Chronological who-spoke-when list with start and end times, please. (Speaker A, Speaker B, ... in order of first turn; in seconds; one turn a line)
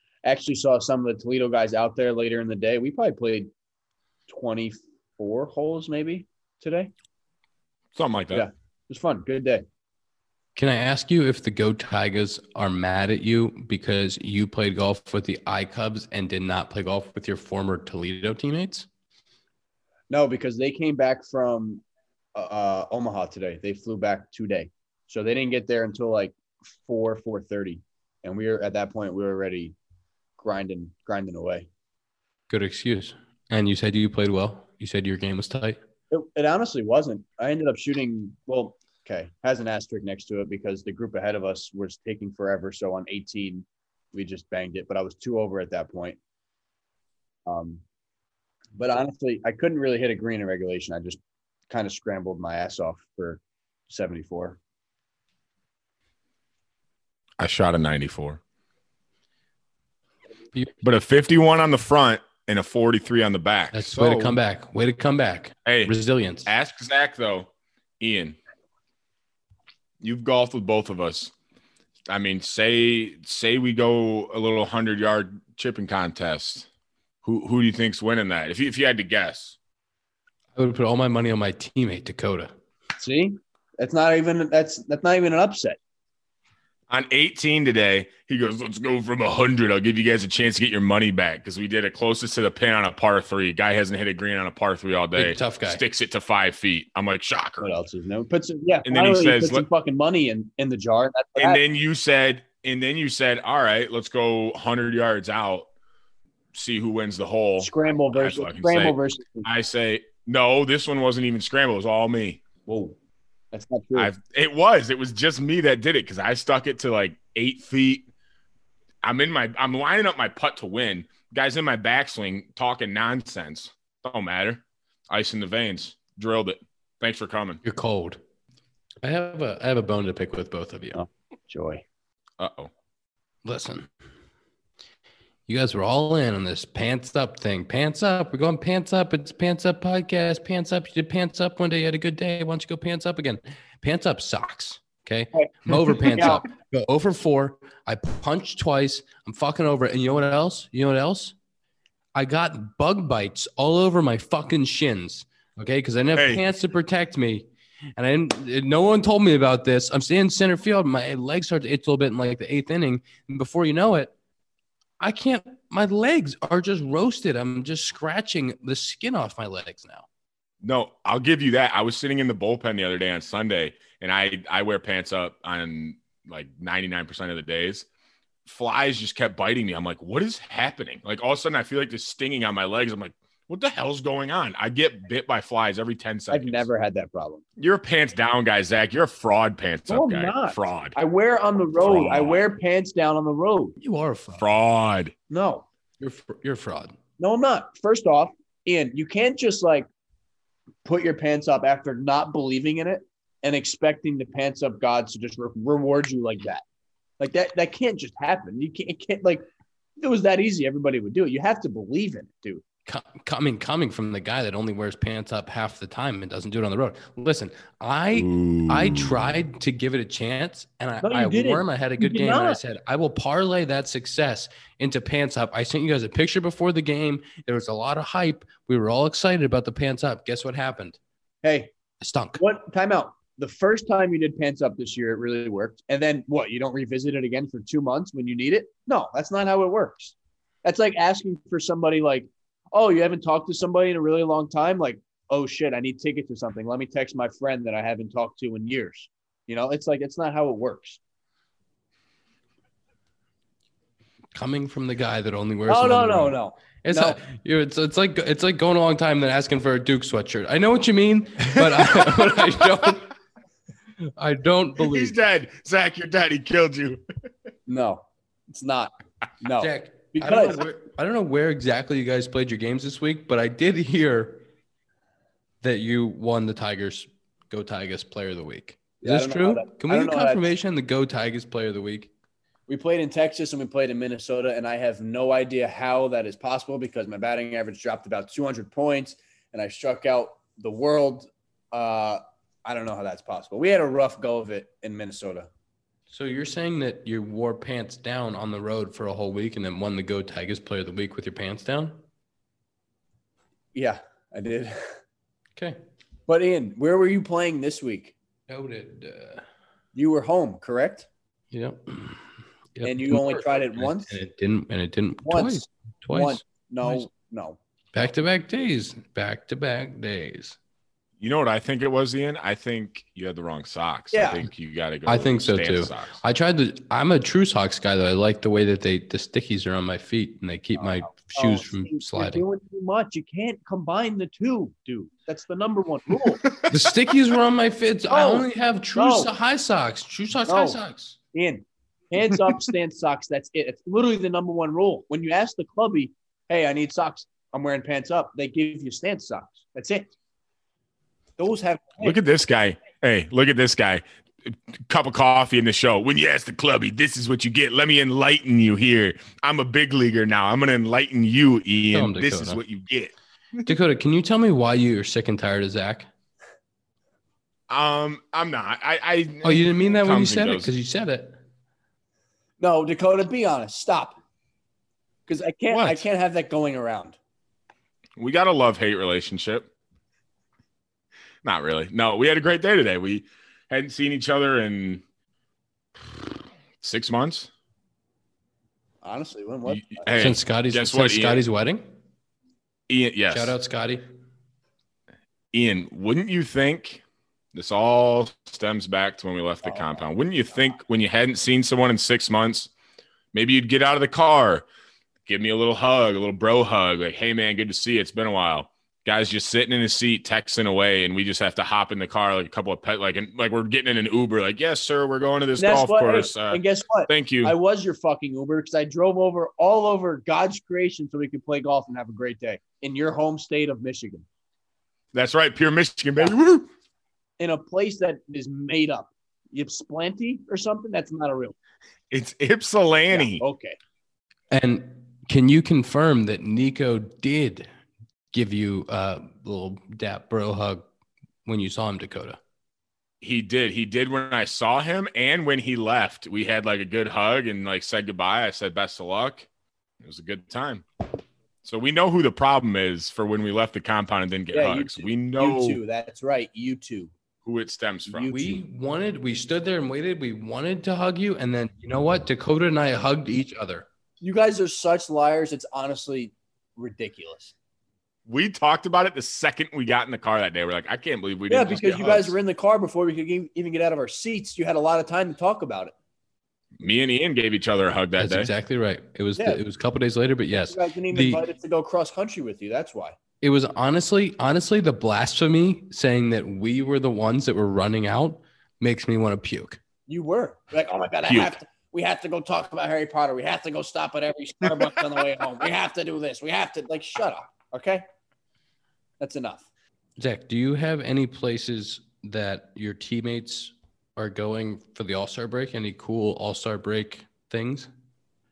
Speaker A: 0.2-3.5
Speaker A: 4.3-6.9
Speaker B: 8.0-8.5
Speaker A: 8.3-9.7
Speaker C: 10.6-18.9
Speaker A: 20.1-21.8
Speaker A: 22.3-29.8
Speaker A: 30.4-31.7
Speaker C: 32.5-35.8
Speaker A: 36.1-46.2
Speaker A: 47.5-47.8
Speaker A: 48.8-54.6
Speaker B: 57.4-58.4
Speaker B: 60.8-64.4
Speaker C: 63.7-66.5
Speaker B: 65.7-65.9
Speaker B: 66.5-67.5
Speaker B: 68.0-68.4
Speaker B: 70.0-71.3
Speaker B: 72.1-76.7
Speaker B: 77.2-79.6
Speaker C: 80.5-82.5
Speaker A: 83.0-85.8
Speaker B: 86.9-97.7
Speaker C: 95.2-95.8
Speaker A: 97.6-101.6
Speaker B: 98.9-99.7
Speaker B: 101.4-105.7
Speaker B: 106.5-112.4
Speaker A: 107.6-109.5
Speaker A: 112.7-113.0
Speaker A: 113.5-114.1
Speaker B: 114.0-118.1
Speaker B: 119.0-127.6
Speaker C: 127.6-128.2
Speaker C: 129.0-131.0
Speaker A: 130.9-131.8
Speaker B: 132.4-132.7
Speaker C: 133.4-133.9
Speaker C: 135.5-151.3
Speaker A: 146.1-146.4
Speaker C: 152.2-164.1
Speaker B: 156.2-156.4
Speaker C: 165.0-170.1
Speaker B: 170.6-177.9
Speaker B: 178.5-186.7
Speaker A: 186.3-187.4
Speaker B: 187.6-191.0
Speaker A: 189.9-193.8
Speaker B: 191.8-192.4
Speaker C: 193.8-194.5
Speaker B: 194.4-195.1
Speaker A: 195.3-195.7
Speaker C: 196.0-197.0
Speaker A: 197.2-199.9
Speaker A: 200.8-206.6
Speaker A: 207.2-209.5
Speaker A: 210.0-212.6
Speaker C: 212.9-231.0
Speaker B: 218.2-219.3
Speaker A: 221.0-222.6
Speaker A: 231.4-231.7
Speaker C: 232.0-232.4
Speaker A: 232.4-251.0
Speaker C: 254.3-263.1
Speaker A: 255.7-257.2
Speaker B: 261.6-262.7
Speaker C: 264.2-265.1
Speaker B: 264.8-267.0
Speaker A: 267.7-270.6
Speaker C: 269.6-274.4
Speaker C: 275.6-282.1
Speaker A: 279.0-280.4
Speaker A: 282.7-295.5
Speaker C: 296.1-302.0
Speaker A: 303.7-304.9
Speaker A: 306.3-308.1
Speaker C: 308.5-309.4
Speaker A: 309.9-311.1
Speaker C: 311.5-312.2
Speaker C: 312.8-317.1
Speaker A: 312.8-314.2
Speaker A: 315.3-317.6
Speaker C: 317.9-320.6
Speaker B: 321.2-326.2
Speaker A: 324.1-324.4
Speaker C: 325.1-332.4
Speaker A: 330.8-336.4
Speaker B: 336.4-336.7
Speaker C: 336.7-341.2
Speaker A: 338.1-339.3
Speaker A: 340.5-340.8
Speaker A: 341.3-350.1
Speaker A: 351.4-352.2
Speaker B: 352.0-363.7
Speaker C: 361.9-362.6
Speaker C: 363.7-366.1
Speaker B: 367.7-370.7
Speaker C: 369.4-371.4
Speaker A: 372.6-374.2
Speaker A: 375.3-377.2
Speaker B: 375.7-376.0
Speaker B: 378.2-379.7
Speaker B: 381.4-385.0
Speaker B: 386.8-387.5
Speaker A: 389.0-390.1
Speaker B: 389.7-391.4
Speaker C: 390.1-391.9
Speaker B: 392.9-393.5
Speaker C: 393.3-394.1
Speaker B: 395.5-397.0
Speaker B: 397.5-402.7
Speaker A: 399.6-400.1
Speaker B: 403.3-404.6
Speaker B: 405.3-417.5
Speaker A: 415.6-424.3
Speaker B: 425.1-426.7
Speaker A: 427.4-431.6
Speaker B: 432.1-433.4
Speaker A: 433.1-433.8
Speaker C: 434.5-437.7
Speaker C: 438.3-440.8
Speaker C: 441.5-442.4
Speaker B: 443.2-449.5
Speaker B: 450.0-450.9
Speaker B: 451.6-455.8
Speaker A: 454.5-457.1
Speaker B: 457.4-458.3
Speaker A: 458.1-458.6
Speaker C: 458.3-463.9
Speaker A: 464.2-467.5
Speaker B: 468.3-472.4
Speaker A: 471.5-475.9
Speaker B: 476.8-478.5
Speaker C: 478.2-481.4
Speaker A: 479.4-479.6
Speaker A: 480.5-483.2
Speaker C: 483.4-489.8
Speaker A: 490.1-498.0
Speaker B: 491.2-491.6
Speaker A: 499.2-499.7
Speaker C: 500.2-507.9